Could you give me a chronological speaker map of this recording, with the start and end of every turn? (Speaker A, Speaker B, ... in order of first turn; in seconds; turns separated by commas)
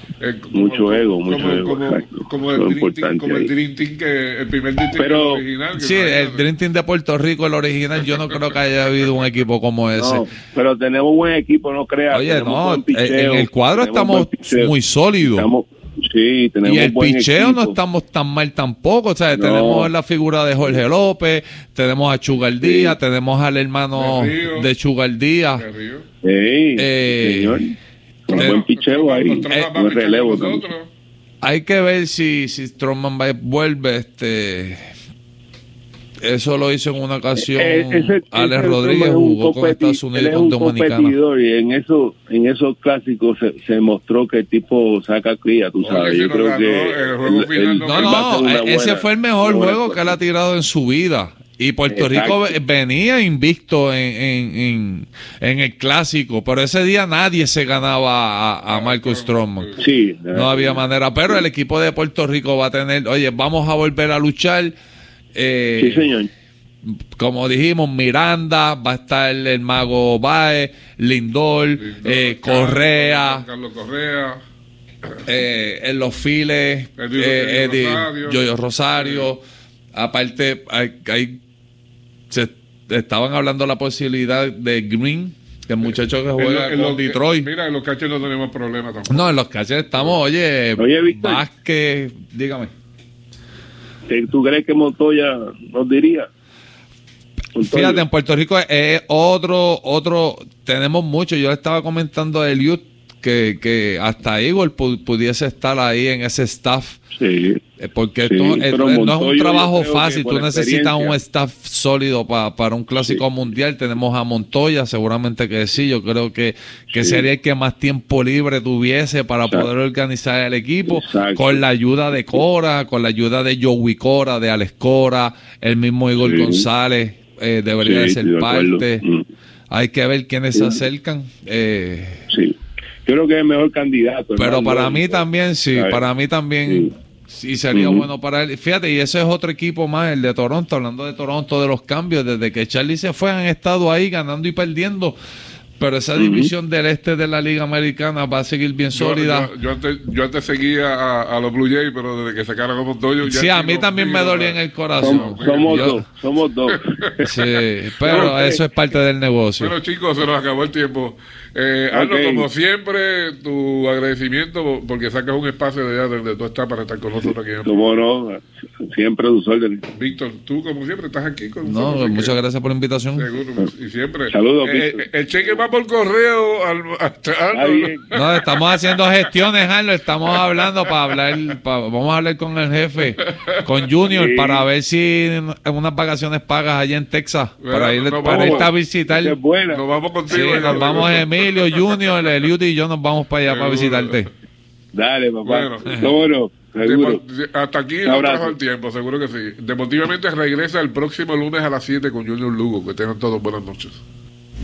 Speaker A: 0.2-6.5, Speaker B: 0.5-3.5, Speaker B: 4.9-5.4, Speaker C: 5.7-10.3, Speaker A: 8.1-8.6, Speaker B: 9.9-17.8, Speaker C: 12.1-15.5, Speaker C: 16.6-25.6, Speaker B: 19.3-19.9, Speaker B: 22.6-23.0, Speaker A: 23.9-24.7, Speaker A: 25.6-26.1, Speaker B: 26.2-27.7, Speaker C: 26.8-27.6, Speaker B: 28.2-30.6, Speaker A: 28.3-30.9, Speaker C: 28.3-28.6, Speaker C: 31.4-34.8, Speaker C: 36.2-41.1, Speaker B: 37.3-50.2, Speaker A: 45.8-48.5, Speaker C: 47.9-59.7, Speaker B: 51.9-52.5, Speaker A: 58.7-59.8, Speaker B: 59.8-61.4, Speaker C: 60.3-64.7, Speaker C: 65.3-66.1, Speaker B: 65.8-66.3, Speaker C: 66.8-73.4, Speaker A: 71.8-74.4, Speaker C: 75.3-79.4, Speaker A: 77.0-79.3, Speaker C: 79.9-81.4, Speaker C: 82.3-87.5, Speaker A: 85.8-89.3, Speaker C: 89.1-92.7, Speaker B: 90.8-91.4, Speaker B: 94.1-96.3, Speaker B: 97.6-98.0, Speaker C: 97.6-107.0, Speaker B: 107.1-107.6, Speaker C: 107.8-129.0, Speaker B: 108.2-111.2, Speaker B: 116.9-117.3, Speaker B: 120.8-122.4, Speaker B: 126.2-126.7, Speaker B: 127.8-129.2, Speaker C: 129.7-132.2, Speaker B: 130.5-130.8, Speaker B: 132.3-136.0, Speaker C: 134.4-145.2, Speaker B: 136.6-136.9, Speaker B: 137.7-138.1, Speaker C: 145.8-149.5, Speaker B: 146.2-146.5, Speaker A: 148.9-156.0, Speaker C: 153.2-156.1, Speaker B: 155.0-157.3, Speaker A: 156.7-157.3, Speaker C: 157.2-159.7, Speaker B: 158.0-158.7, Speaker A: 158.0-158.3, Speaker A: 159.6-168.0, Speaker B: 161.9-162.5, Speaker B: 167.2-169.8, Speaker A: 169.9-172.3, Speaker C: 171.6-173.3, Speaker A: 173.2-179.0, Speaker B: 174.3-175.6, Speaker B: 177.5-178.1, Speaker C: 178.1-189.4, Speaker A: 183.2-183.9, Speaker B: 184.1-184.6, Speaker A: 187.6-188.7, Speaker B: 188.3-189.8, Speaker A: 189.7-192.3, Speaker C: 190.3-194.3, Speaker B: 190.3-191.2, Speaker A: 193.4-194.2, Speaker B: 194.9-197.2, Speaker A: 195.4-195.9, Speaker C: 195.9-196.1, Speaker A: 196.8-204.0, Speaker B: 198.0-198.6